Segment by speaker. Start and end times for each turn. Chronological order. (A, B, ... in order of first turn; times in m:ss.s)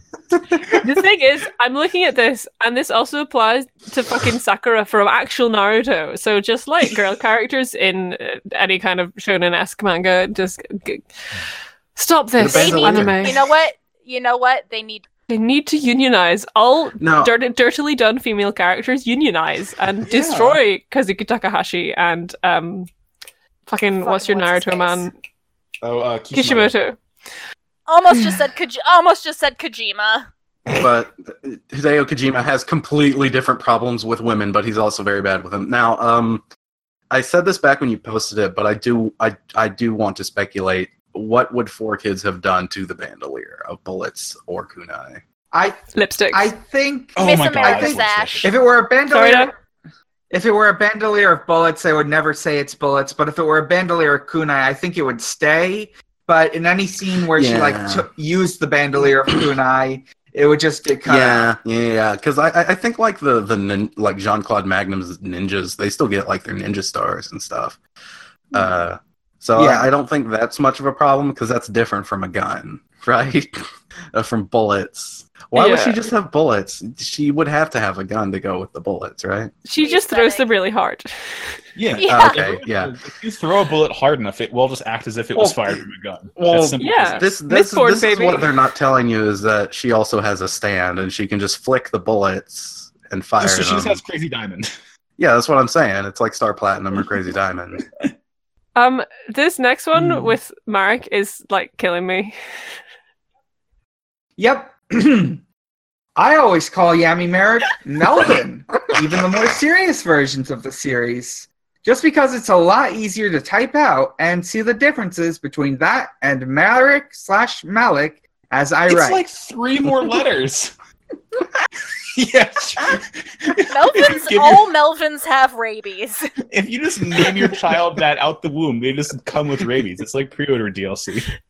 0:00.8-0:11.0 A
0:12.0-0:13.4 A
0:12.4-0:13.4 B
0:12.5-0:15.1 C
0:15.3-0:22.9 A
0:17.0-0:17.4 B
0:20.1-0:20.6 D
0:23.7-0:25.1 A
0:24.0-0:25.1 C
0:25.8-0:26.7 D
0:26.3-0:27.0 A
0:27.9-0:30.3 C
0:30.8-0:36.4 B
0:37.1-0:45.2 B
0:45.5-0:49.6 E
0:45.9-0:46.5 A
0:47.2-0:48.5 D
0:47.2-0:48.5 C
0:49.1-0:49.5 A
0:50.3-1:01.5 E
0:57.3-0:58.1 B
1:01.1-1:07.8 B
1:08.5-1:19.5 B
1:09.6-1:09.9 E
1:15.6-1:16.0 A
1:19.6-1:21.6 A
1:19.8-1:20.5 C
1:21.8-1:27.2 D
1:22.0-1:22.4 C
1:22.1-1:22.9 B
1:25.4-1:25.8 B
1:26.4-1:34.0 B
1:26.8-1:28.5 A
1:33.4-1:34.7 D
1:35.2-1:37.8 B
1:38.8-1:42.4 A
1:40.0-1:40.3 E
1:44.4-1:45.4 E
1:46.2-1:59.2 E
1:58.9-2:00.7 D
2:02.2-2:04.7 D
2:03.7-2:06.3 C
2:06.5-2:11.3 D